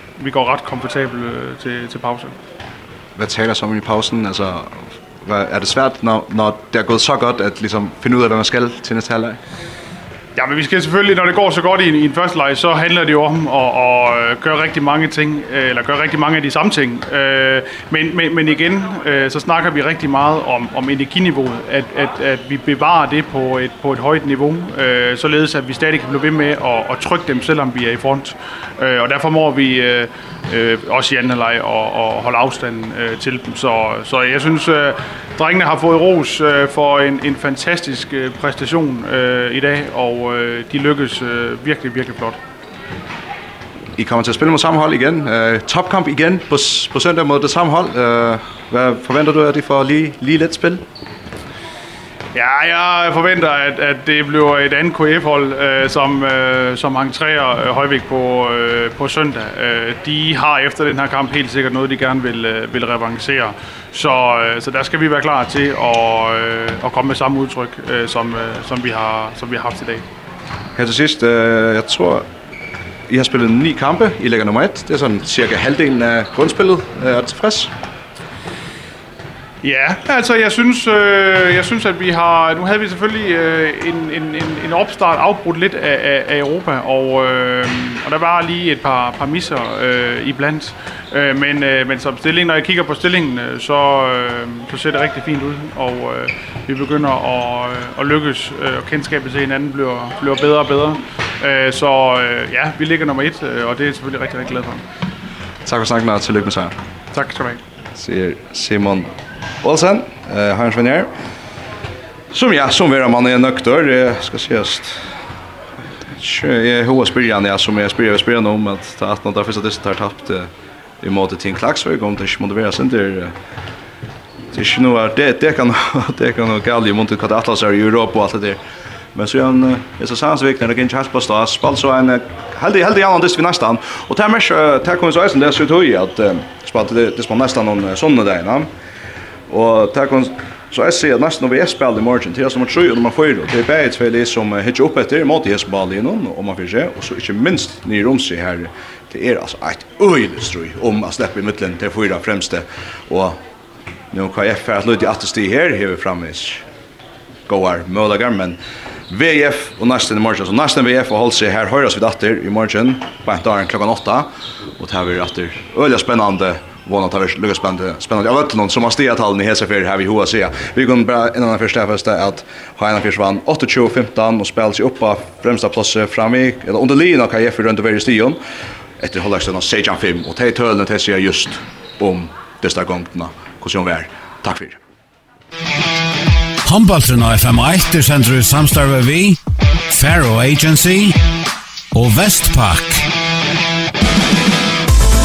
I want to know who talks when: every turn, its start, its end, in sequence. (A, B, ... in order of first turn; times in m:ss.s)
0:00.2-0:02.3 A
0:03.2-0:09.4 B
0:10.4-0:42.4 A
0:44.0-0:50.8 B
0:52.3-1:10.0 A
1:10.8-1:12.3 B
1:13.1-1:17.7 B
1:19.6-1:44.8 A
1:45.6-1:46.7 B
1:47.1-1:47.6 A
1:47.9-1:49.1 B
1:49.6-1:51.1 B
1:52.3-1:55.0 B
1:56.2-2:00.5 B
2:01.0-2:03.3 B
2:04.5-2:08.6 B
2:09.1-2:18.7 B
2:19.5-2:33.4 B
2:34.1-2:36.6 B
2:37.5-2:38.6 B
2:39.1-2:58.4 B
2:59.0-3:04.8 B
3:06.6-3:11.2 C
3:11.9-3:13.1 C